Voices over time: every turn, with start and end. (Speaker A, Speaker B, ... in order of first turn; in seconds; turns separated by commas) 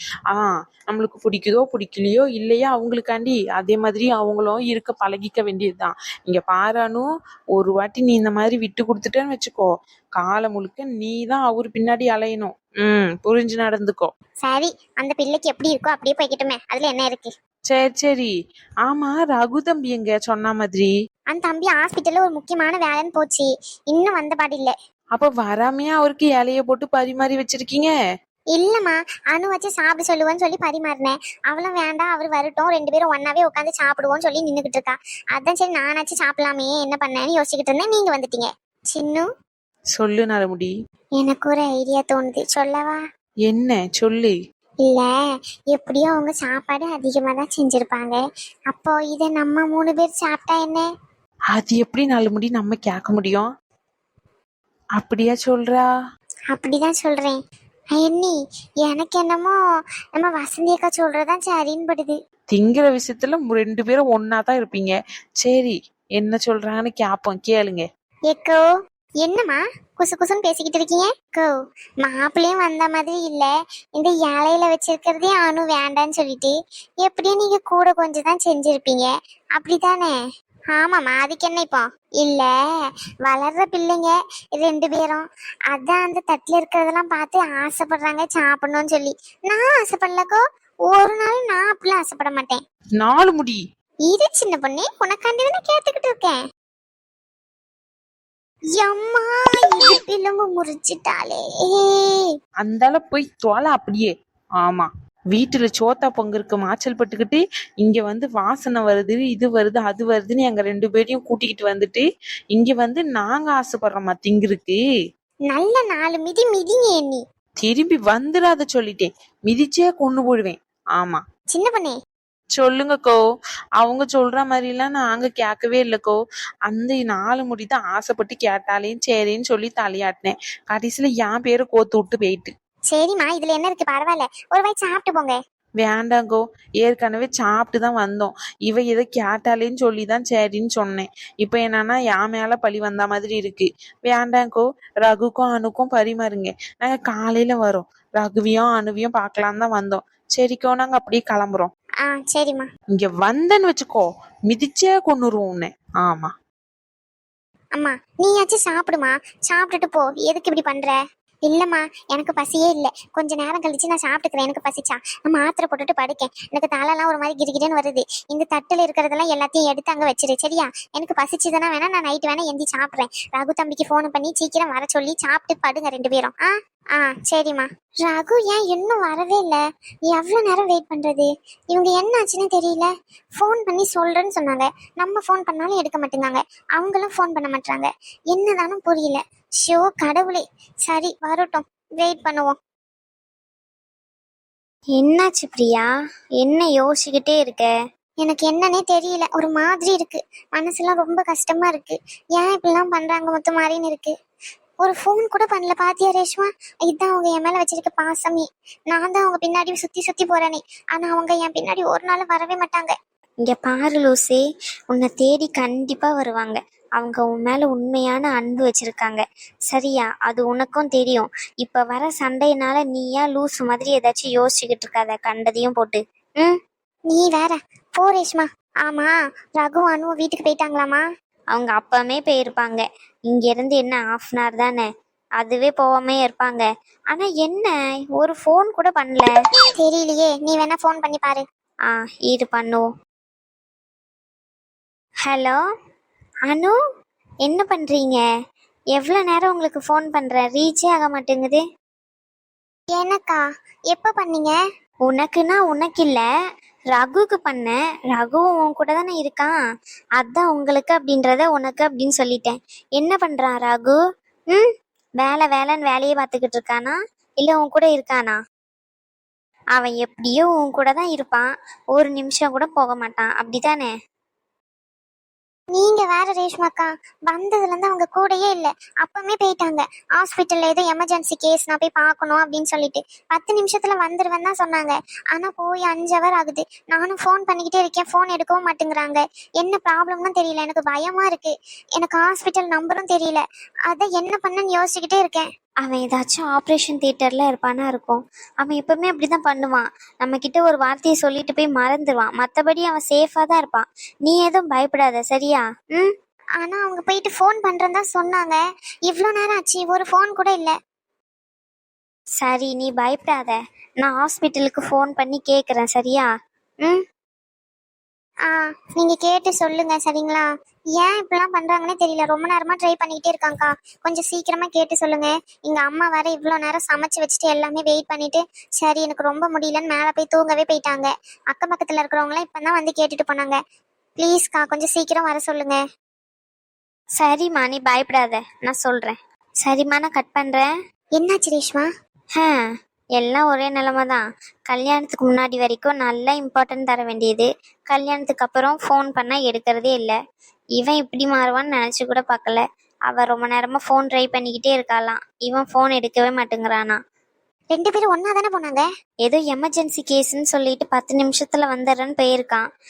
Speaker A: 0.3-14.1, Speaker B: 14.4-17.3, Speaker A: 17.7-18.3, Speaker A: 18.9-20.9, Speaker B: 21.3-24.7, Speaker A: 25.1-27.9, Speaker B: 28.6-39.2, Speaker A: 40.0-40.7, Speaker B: 41.2-43.0, Speaker A: 43.5-44.4, Speaker B: 44.9-45.1, Speaker B: 45.7-50.9, Speaker A: 51.5-53.5, Speaker A: 55.0-55.9, Speaker B: 56.5-57.4, Speaker B: 57.9-59.5, Speaker B: 60.1-62.1, Speaker A: 62.5-67.8, Speaker B: 68.3-68.6, Speaker B: 69.2-80.1, Speaker B: 80.7-82.5, Speaker B: 83.2-92.6, Speaker A: 93.0-93.6, Speaker B: 94.1-96.4, Speaker B: 98.8-102.3, Speaker A: 102.6-104.1, Speaker A: 104.6-114.8, Speaker B: 115.5-117.2, Speaker A: 117.6-121.2, Speaker B: 121.5-122.0, Speaker A: 122.6-123.2, Speaker A: 123.8-126.2, Speaker A: 126.7-132.5, Speaker B: 132.9-135.3, Speaker A: 135.8-151.7, Speaker B: 152.0-152.7, Speaker A: 153.0-156.3, Speaker B: 157.8-161.0, Speaker B: 161.5-192.6, Speaker C: 194.9-195.9, Speaker C: 196.4-197.7, Speaker B: 198.2-204.1, Speaker B: 204.8-212.9, Speaker C: 213.4-226.6, Speaker B: 227.1-231.0, Speaker C: 231.5-234.9, Speaker C: 235.4-239.3, Speaker B: 239.8-241.4, Speaker C: 241.9-242.9, Speaker C: 245.2-245.6, Speaker C: 246.5-246.8, Speaker C: 247.4-248.2, Speaker C: 248.9-251.6, Speaker B: 252.9-254.6, Speaker C: 255.1-256.2, Speaker C: 256.9-259.5, Speaker C: 260.1-264.0, Speaker C: 264.5-268.4, Speaker C: 269.8-273.9, Speaker B: 275.7-295.5, Speaker C: 295.8-306.1, Speaker B: 306.6-310.7, Speaker C: 312.4-316.3, Speaker B: 318.4-333.6, Speaker B: 334.2-335.8, Speaker C: 337.2-340.6, Speaker B: 341.2-341.9, Speaker C: 342.3-342.6, Speaker C: 343.2-350.1, Speaker C: 350.8-357.0, Speaker B: 357.7-358.9, Speaker C: 359.2-362.6